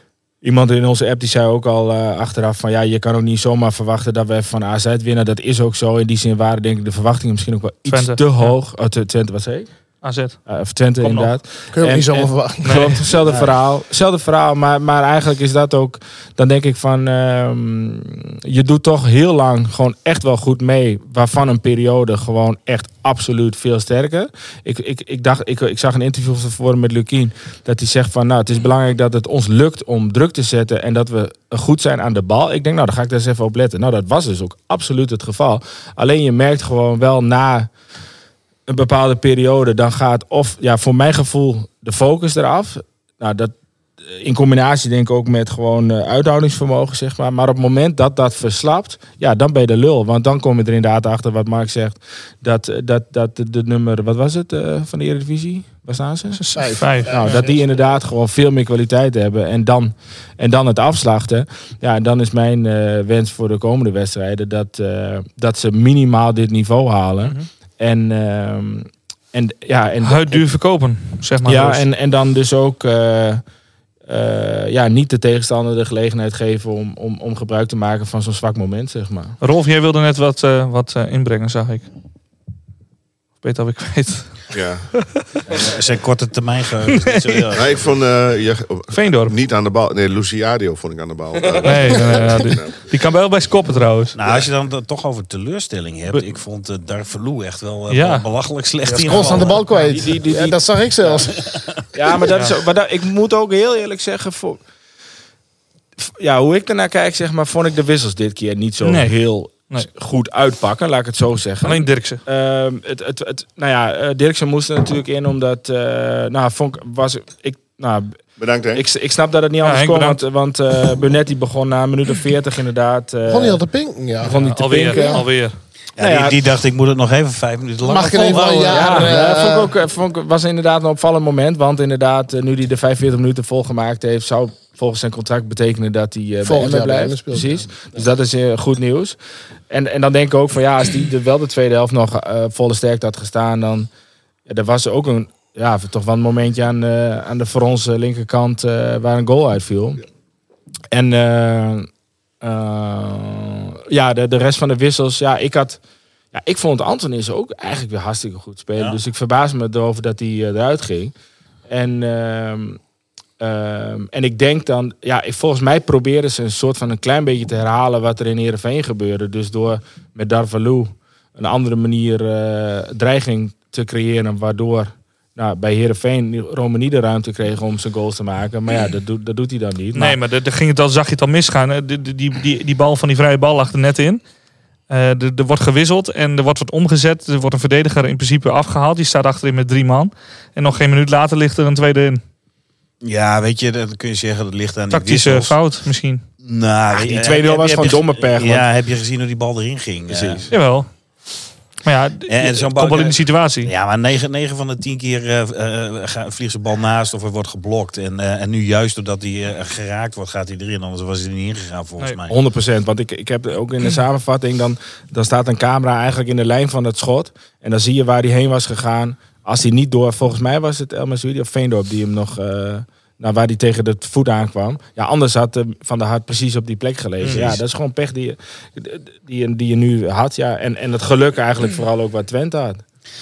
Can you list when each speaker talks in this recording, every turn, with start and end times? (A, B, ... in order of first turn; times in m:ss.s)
0:00.4-0:09.7 A
0:07.9-0:08.5 B
0:10.0-0:10.4 B
0:10.4-0:37.7 A
0:11.0-0:11.3 B
0:11.7-0:13.5 C
0:12.6-0:13.0 B
0:38.7-0:56.4 A
0:56.3-0:57.4 B
0:56.6-0:57.6 C
0:57.0-1:10.4 A
1:10.0-1:11.8 B
1:11.4-1:13.4 A
1:14.1-1:19.4 A
1:19.4-1:21.8 B
1:23.4-1:24.5 B
1:24.5-1:24.9 D
1:25.5-1:27.8 E
1:26.9-1:27.4 B
1:27.5-1:32.8 D
1:28.9-1:29.3 B
1:31.6-1:34.1 B
1:34.1-1:39.7 E
1:37.9-1:38.2 B
1:38.8-1:41.6 C
1:39.1-1:41.2 A
1:41.9-1:44.6 A
1:46.0-1:58.2 A
1:48.8-1:49.9 B
1:51.6-1:52.2 B
1:58.4-1:58.8 D
1:58.7-2:03.6 A
1:59.6-2:00.2 B
2:03.3-2:04.3 C
2:04.2-2:05.6 B
2:04.2-2:05.2 A
2:04.8-2:05.2 C
2:06.0-2:09.2 E
2:06.0-2:06.4 A
2:07.8-2:09.7 C
2:08.6-2:19.2 A
2:16.4-2:17.7 C
2:19.7-2:23.9 A
2:24.5-2:30.0 A
2:30.9-2:31.9 A
2:32.4-2:35.8 A
2:36.3-2:41.1 A
2:41.7-2:42.8 A
2:43.4-3:00.2 A
2:59.9-3:04.2 B
3:04.9-3:12.2 B
3:13.0-3:15.6 E
3:14.9-3:16.2 B
3:16.4-3:20.8 E
3:16.9-3:18.7 A
3:20.1-3:20.4 A
3:20.5-3:21.2 B
3:21.8-3:23.7 B
3:22.3-3:32.4 E
3:32.3-3:52.8 A
3:47.3-3:47.6 E